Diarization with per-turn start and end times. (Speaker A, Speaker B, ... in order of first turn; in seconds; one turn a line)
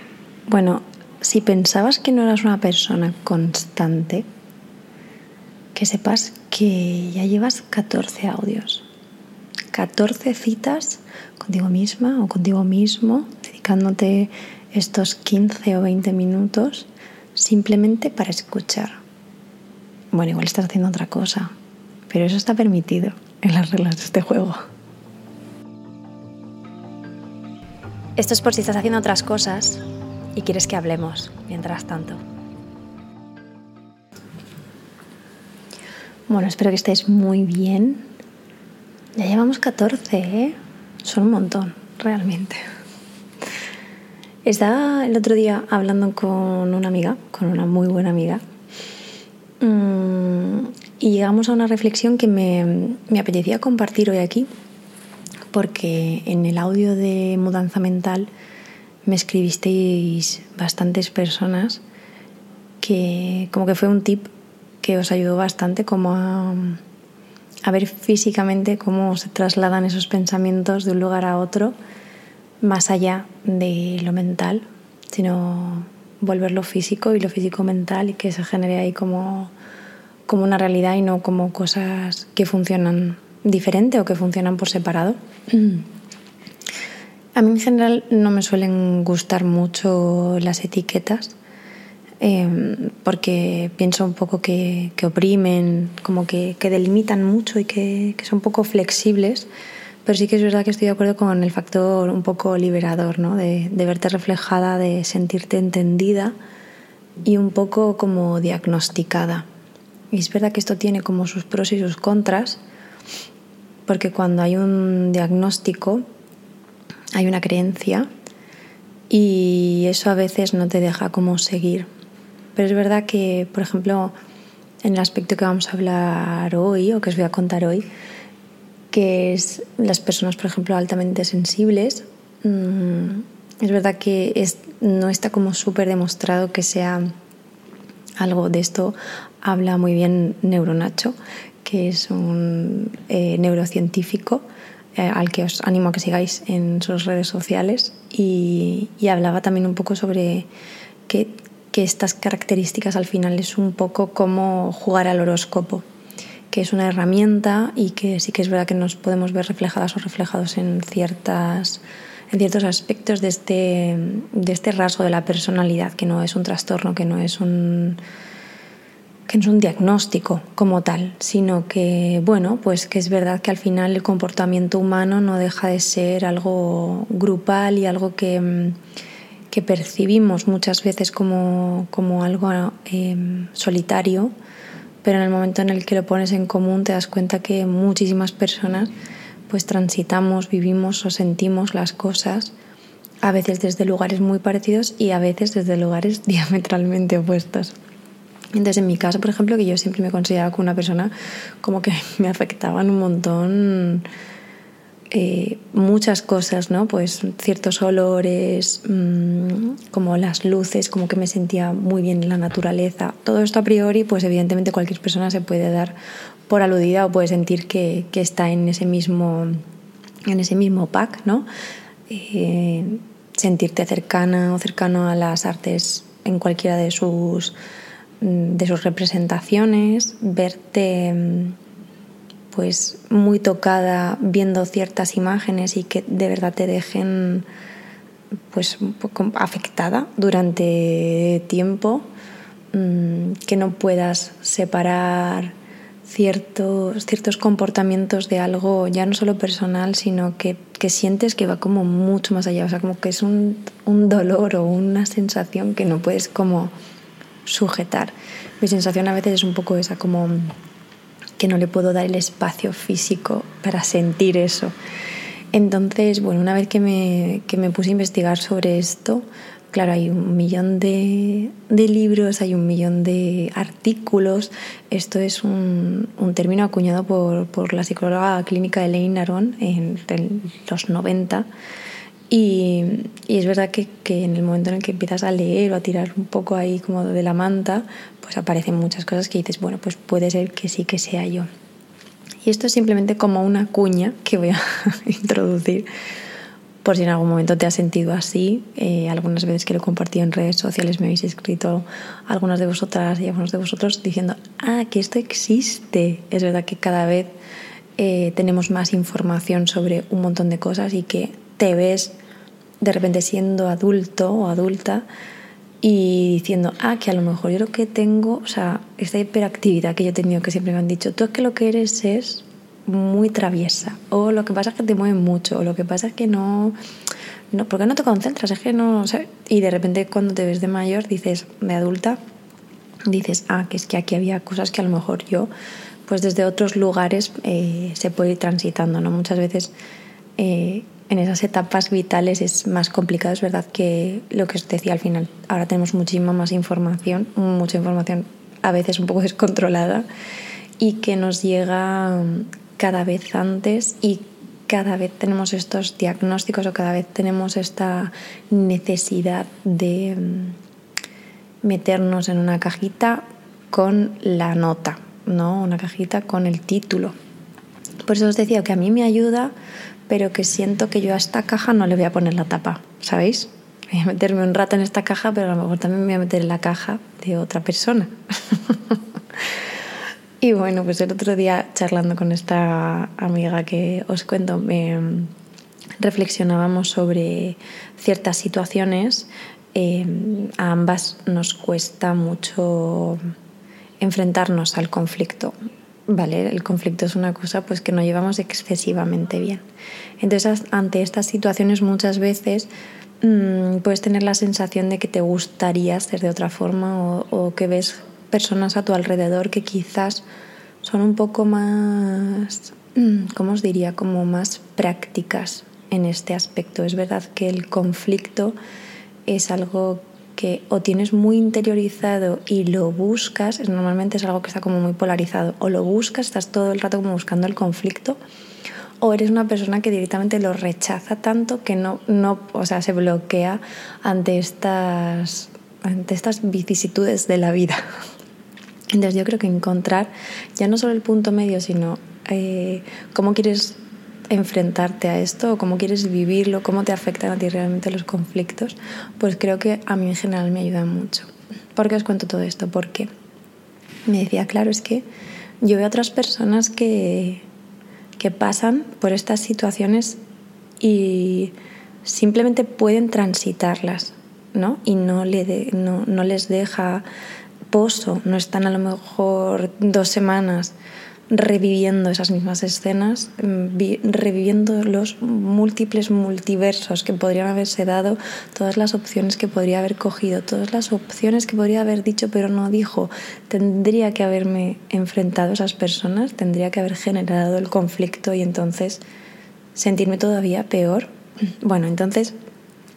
Speaker A: 0.5-4.2
Speaker A: 5.7-8.8
Speaker A: 9.7-19.0
Speaker A: 20.1-21.5
Speaker A: 22.1-24.6
Speaker A: 28.2-29.8
Speaker A: 30.3-32.2
Speaker A: 36.3-38.1
Speaker A: 39.2-42.6
Speaker A: 44.4-48.4
Speaker A: 49.6-54.5
Speaker A: 55.5-58.3
Speaker A: 59.0-61.8
Speaker A: 62.8-64.3
Speaker A: 64.8-66.8
Speaker A: 67.6-71.7
Speaker A: 72.6-79.5
Speaker A: 80.3-85.9
Speaker A: 87.3-91.3
Speaker A: 92.2-99.5
Speaker A: 100.0-106.3
Speaker A: 107.2-109.5
Speaker A: 110.1-112.6
Speaker A: 113.9-116.0
Speaker A: 117.1-118.1
Speaker A: 119.1-121.9
Speaker A: 122.5-124.1
Speaker A: 124.8-127.8
Speaker A: 128.9-137.1
Speaker A: 138.2-144.4
Speaker A: 144.9-150.5
Speaker A: 151.1-155.8
Speaker A: 156.5-168.0
Speaker A: 169.3-178.8
Speaker A: 179.5-184.3
Speaker A: 185.0-188.9
Speaker A: 189.5-192.5
Speaker A: 193.2-197.8
Speaker A: 198.5-204.1
Speaker A: 205.1-215.9
Speaker A: 216.5-219.5
Speaker A: 220.3-221.5
Speaker A: 222.1-227.6
Speaker A: 228.2-231.6
Speaker A: 232.5-237.4
Speaker A: 238.5-242.1
Speaker A: 242.7-256.7
Speaker A: 257.4-260.5
Speaker A: 261.4-264.7
Speaker A: 265.5-281.5
Speaker A: 282.3-291.5
Speaker A: 292.4-295.9
Speaker A: 296.8-307.3
Speaker A: 308.0-312.1
Speaker A: 312.8-315.1
Speaker A: 315.8-326.8
Speaker A: 327.5-332.2
Speaker A: 333.1-335.5
Speaker A: 336.1-339.7
Speaker A: 340.4-350.1
Speaker A: 350.8-360.6
Speaker A: 361.6-367.1
Speaker A: 368.1-369.5
Speaker A: 370.1-379.0
Speaker A: 380.4-385.3
Speaker A: 386.0-393.2
Speaker A: 394.0-395.5
Speaker A: 396.1-399.6
Speaker A: 400.2-402.7
Speaker A: 403.2-410.2
Speaker A: 410.8-418.6
Speaker A: 419.2-428.2
Speaker A: 429.0-437.8
Speaker A: 438.9-443.8
Speaker A: 444.3-453.1
Speaker A: 454.1-455.0
Speaker A: 455.6-457.4
Speaker A: 458.2-460.2
Speaker A: 460.8-467.0
Speaker A: 467.7-470.7
Speaker A: 471.3-489.0
Speaker A: 489.7-491.1
Speaker A: 491.6-492.3